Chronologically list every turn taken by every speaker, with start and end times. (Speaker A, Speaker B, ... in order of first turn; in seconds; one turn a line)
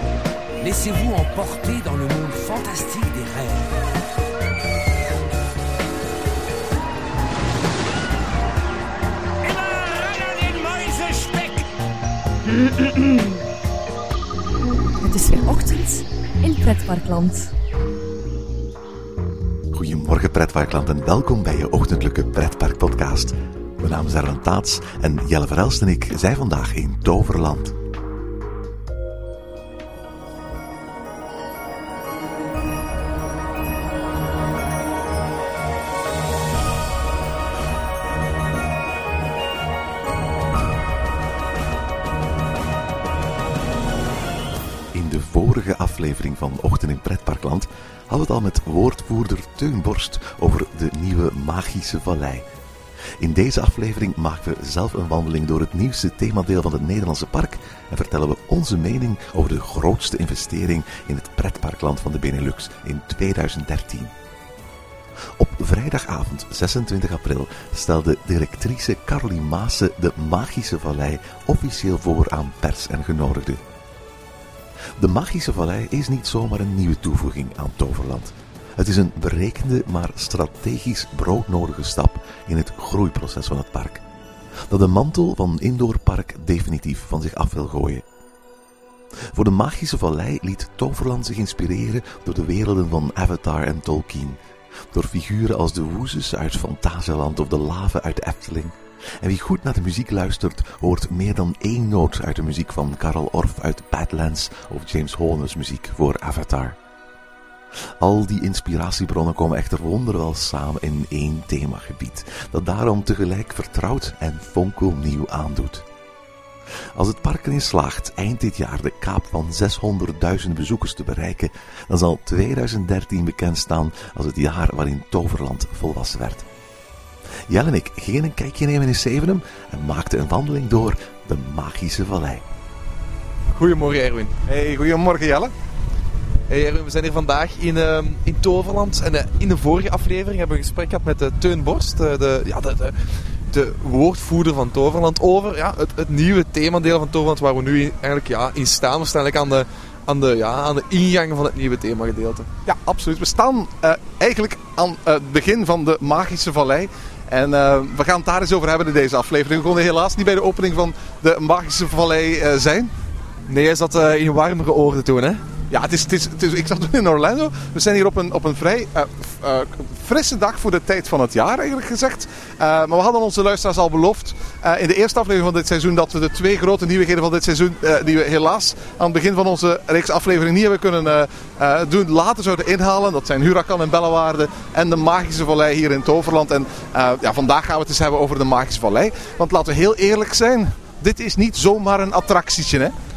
Speaker A: 0.6-3.7
Speaker A: 9.4-11.7
Speaker B: 15.0-17.5
Speaker C: 19.7-27.7
Speaker C: 44.9-52.5
Speaker C: 53.2-64.1
Speaker C: 65.4-73.6
Speaker C: 75.0-84.0
Speaker C: 84.7-88.0
Speaker C: 89.3-94.4
Speaker C: 94.9-106.8
Speaker C: 108.0-115.8
Speaker C: 116.9-126.4
Speaker C: 127.5-132.4
Speaker D: 133.5-134.3
Speaker E: 134.5-135.5
Speaker D: 136.5-142.9
Speaker D: 143.5-152.5
Speaker E: 152.7-162.9
Speaker D: 163.5-165.4
Speaker E: 165.7-192.9